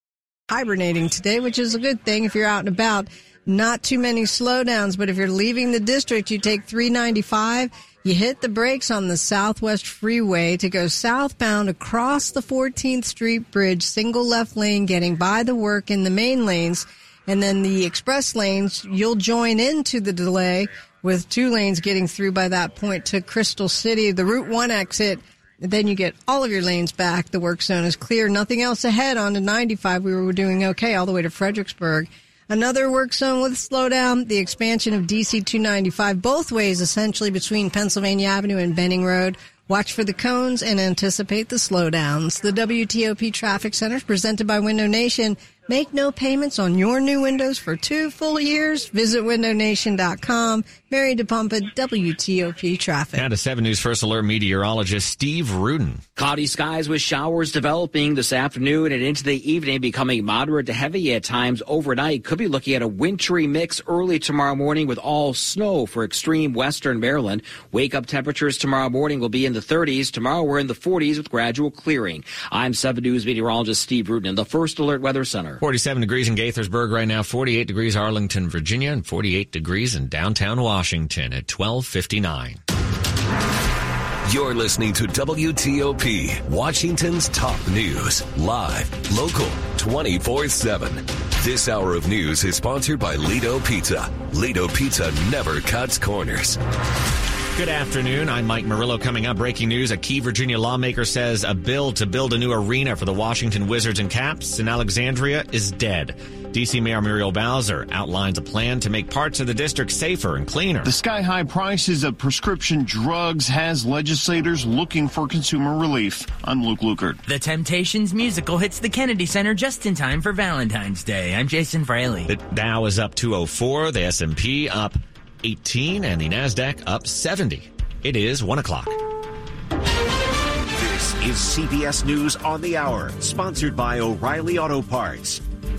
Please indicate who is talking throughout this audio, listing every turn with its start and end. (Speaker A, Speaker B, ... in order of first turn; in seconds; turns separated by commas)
Speaker A: 0.5-53.2, Speaker B: 53.1-56.0, Speaker C: 56.2-75.6, Speaker B: 75.6-82.6, Speaker D: 84.3-96.6, Speaker B: 97.6-110.9, Speaker E: 110.8-117.2, Speaker F: 117.3-122.3, Speaker B: 122.3-129.0, Speaker G: 130.8-135.4